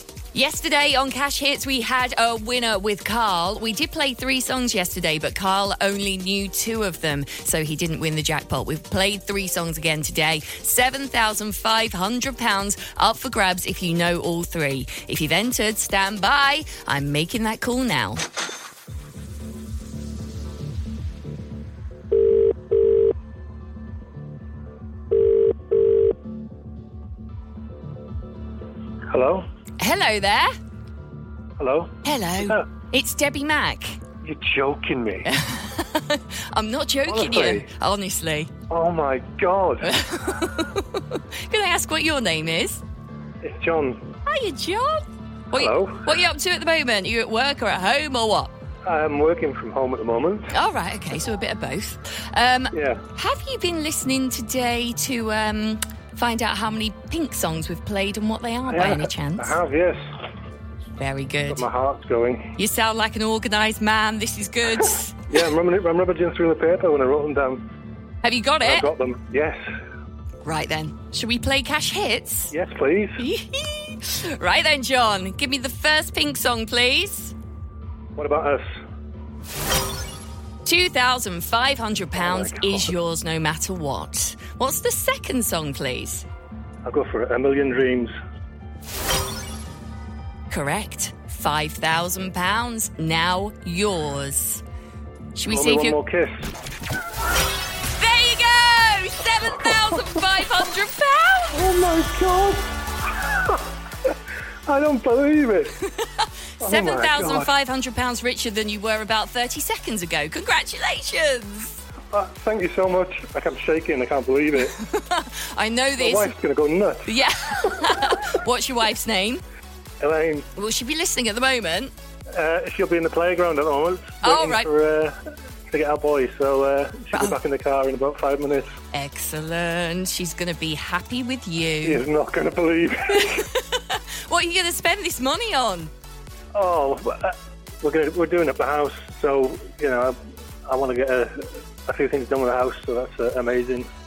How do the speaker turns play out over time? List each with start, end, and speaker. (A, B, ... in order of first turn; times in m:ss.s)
0:00.3-0:18.2 A
0:29.1-0:29.5 B
0:29.8-0:30.5 A
0:31.6-0:32.6 B
0:32.0-0:34.0 A
0:34.2-0:35.3 B
0:35.3-0:38.5 A
0:37.1-0:37.7 B
0:38.7-0:40.0 B
0:39.8-0:42.8 A
0:43.4-0:44.0 B
0:44.3-0:48.5 A
0:45.5-0:46.1 B
0:48.8-0:50.5 B
0:50.5-0:59.6 A
0:52.7-0:53.0 B
0:58.7-1:00.2 B
1:01.0-1:01.6 A
1:01.5-1:02.5 B
1:02.6-1:05.3 A
1:05.3-1:07.6 B
1:08.2-1:08.9 A
1:08.6-1:09.6 B
1:10.4-1:12.5 A
1:12.5-1:13.2 B
1:13.2-1:17.3 A
1:18.2-1:18.8 B
1:20.6-1:26.2 A
1:22.2-1:22.9 B
1:26.8-1:28.1 B
1:30.5-1:34.6 A
1:35.4-1:36.0 A
1:35.5-1:36.5 B
1:37.8-1:41.6 A
1:41.5-1:44.1 B
1:44.7-1:45.8 B
1:45.8-1:51.8 A
1:46.6-1:47.5 B
1:52.1-1:54.8 B
1:54.6-1:56.3 A
1:56.0-1:58.1 B
1:57.1-1:59.4 A
2:00.0-2:00.5 B
2:00.6-2:01.9 A
2:02.3-2:05.2 B
2:04.2-2:04.7 A
2:05.7-2:08.7 B
2:08.9-2:12.0 A
2:11.8-2:13.5 B
2:13.2-2:15.9 A
2:16.5-2:23.9 B